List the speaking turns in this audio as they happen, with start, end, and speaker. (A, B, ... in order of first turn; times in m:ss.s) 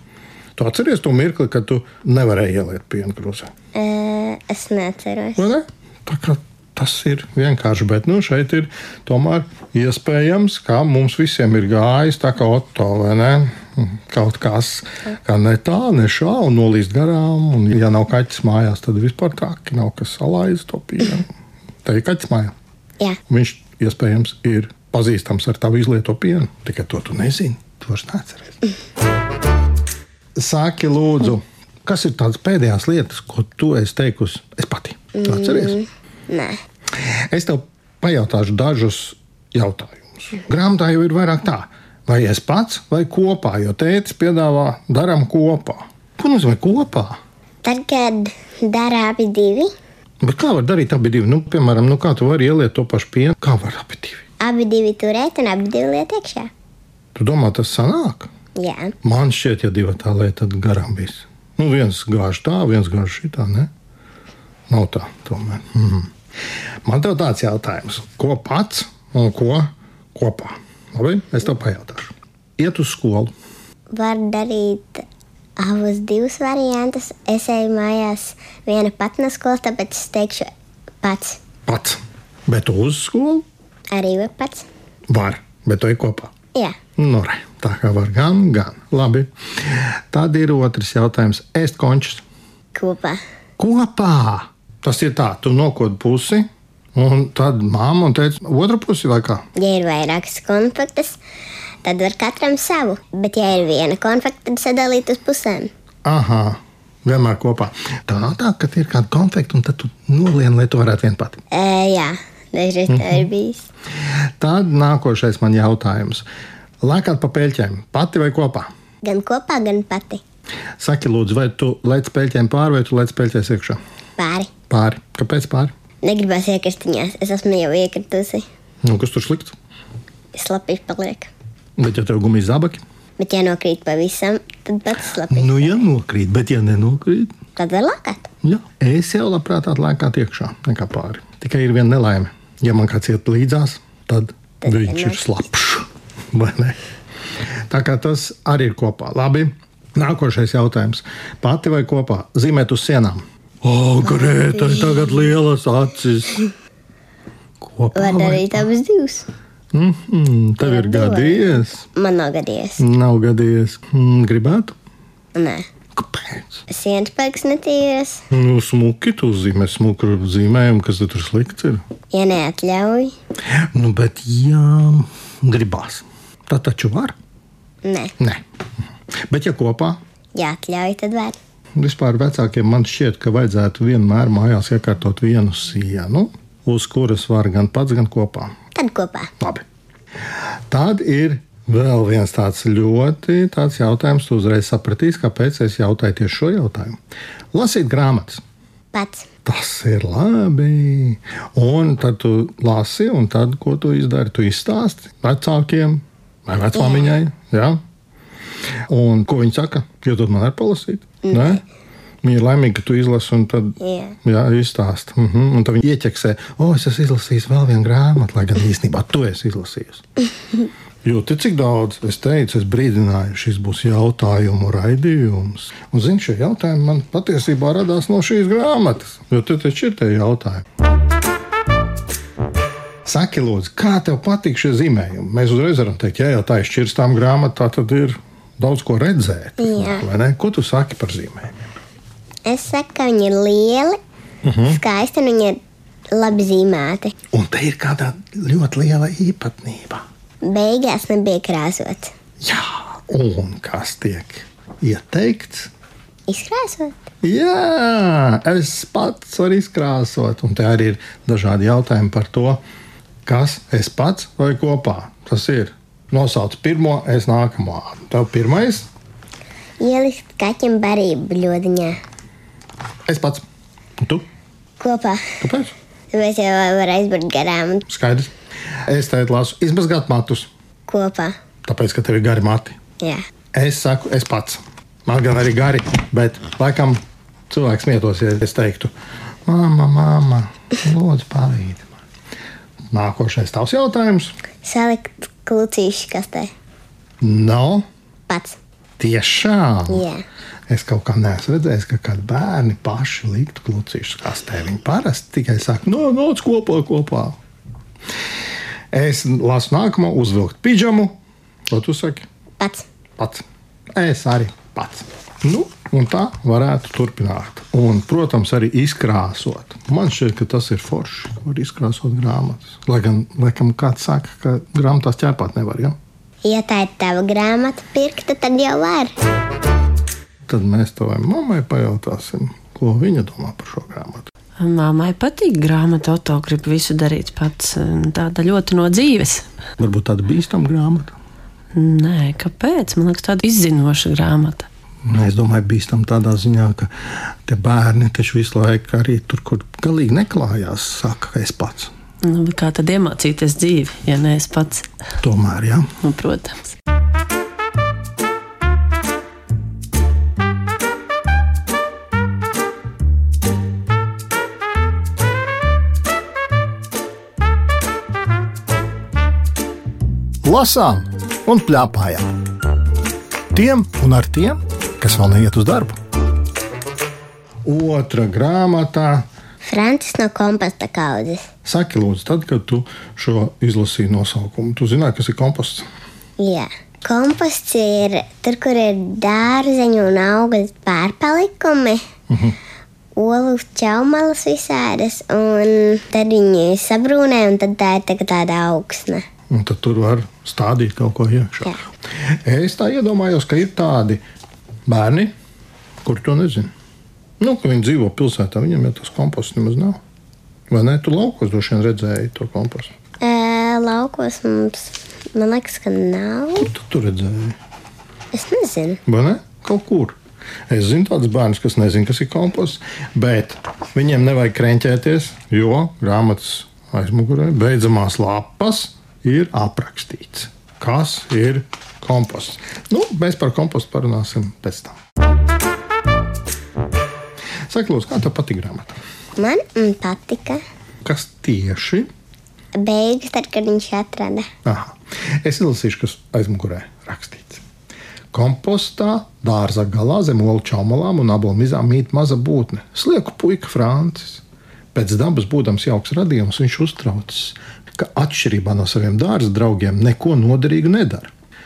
0:00.6-0:03.5 A
0:03.7-0:05.5 B
0:05.4-0:21.3 A
0:21.8-0:22.5 A
0:23.3-0:28.6 A
0:30.4-0:35.8 A
0:35.1-0:36.6 B
0:37.0-0:47.2 A
0:47.6-0:49.7 B
0:50.2-0:54.2 A
0:54.4-0:56.5 B
0:57.1-0:58.3 A
0:58.6-0:58.9 B
0:59.0-1:03.7 A
1:04.7-1:06.1 A
1:06.8-1:13.3 A
1:13.9-1:15.0 B
1:15.6-1:20.5 B
1:21.0-1:21.4 B
1:21.7-1:23.4 A
1:23.9-1:24.6 B
1:25.1-1:26.3 A
1:27.0-1:32.2 A
1:32.7-1:33.2 B
1:33.6-1:39.5 A
1:39.6-1:41.2 B
1:41.8-1:45.7 B
1:46.0-1:51.4 A
1:51.5-1:53.6 B
1:52.9-1:53.3 A
1:54.4-1:56.2 A
1:56.8-1:58.7 A
1:59.0-2:00.2 B
2:00.8-2:03.8 A
2:04.2-2:04.5 B
2:04.7-2:05.7 A
2:06.0-2:08.4 B
2:08.8-2:09.5 A
2:10.3-2:11.3 B
2:11.8-2:12.8 A
2:13.2-2:15.8 B
2:15.3-2:17.3 A
2:17.6-2:18.3 B
2:18.4-2:26.8 A
2:24.6-2:25.2 B
2:27.7-2:36.5 A
2:34.4-2:34.9 B
2:37.6-2:38.7 A
2:37.9-2:39.3 B
2:39.7-2:41.8 A
2:40.6-2:42.8 B
2:42.8-2:44.8 A
2:45.3-2:45.6 B
2:45.9-2:46.6 A
2:46.7-2:48.2 B
2:48.3-2:51.8 A
2:52.1-2:53.1 B
2:53.6-2:57.1 A
2:57.8-2:58.1 B
2:59.3-3:00.0 A
3:00.3-3:01.4 B
3:01.8-3:08.5 A
3:08.7-3:09.3 B
3:10.7-3:17.0 A
3:17.5-3:18.4 A
3:18.9-3:19.3 B
3:19.4-3:27.8 A
3:26.7-3:27.1 B
3:28.9-3:31.6 A
3:32.2-3:40.0 A
3:33.8-3:34.2 B
3:41.0-3:50.6 A
3:53.0-4:01.6 A
3:59.6-4:00.0 B
4:02.4-4:04.0 B
4:04.4-4:04.8 A
4:04.7-4:05.6 B
4:06.1-4:07.1 B
4:07.3-4:10.0 A
4:10.4-4:12.1 B
4:12.4-4:15.7 A
4:16.3-4:17.0 B
4:17.2-4:22.6 A
4:23.2-4:28.9 A
4:29.8-4:32.0 B
4:33.1-4:33.4 A
4:34.0-4:34.2 A
4:34.8-4:35.2 B
4:35.4-4:35.7 A
4:36.1-4:37.8 B
4:37.8-4:38.3 A
4:38.8-4:40.5 A
4:40.9-4:41.3 B
4:41.6-4:42.8 A
4:43.5-4:48.9 A
4:49.4-4:51.9 A
4:52.9-4:54.4 A
4:54.6-4:56.5 B
4:57.2-4:57.8 A
4:58.3-4:58.6 B
4:59.0-5:00.1 A
4:59.9-5:00.2 B
5:00.7-5:07.4 A
5:08.9-5:11.2 A
5:11.7-5:12.2 A
5:12.6-5:12.8 B
5:13.2-5:13.4 A
5:13.9-5:26.0 A
5:26.4-5:29.1 B
5:30.5-5:34.3 A
5:34.6-5:39.4 C
5:39.8-5:41.2 A
5:41.7-5:44.7 C
5:45.0-5:46.9 A
5:47.4-5:51.9 A
5:52.2-5:54.9 C
5:55.2-5:55.9 A
5:56.0-5:56.7 C
6:10.4-6:12.3 A
6:13.5-6:16.0 A
6:17.6-6:19.2 A
6:19.6-6:21.5 B
6:21.6-6:25.8 A
6:26.4-6:32.0 B
6:32.3-6:32.6 A
6:33.1-6:39.2 B
6:39.5-6:44.2 A
6:44.8-6:45.3 A
6:46.0-6:46.7 A
6:47.4-6:50.0 A
6:50.7-6:52.9 A
6:53.2-6:56.7 B
6:56.6-6:57.6 A
6:58.3-6:59.0 B
6:59.0-7:00.2 A
7:00.7-7:15.0 A
7:17.7-7:19.0 A
7:19.4-7:20.6 B
7:21.0-7:22.1 A
7:22.8-7:24.5 B
7:24.6-7:27.6 A
7:28.3-7:34.4 A
7:34.9-7:41.3 A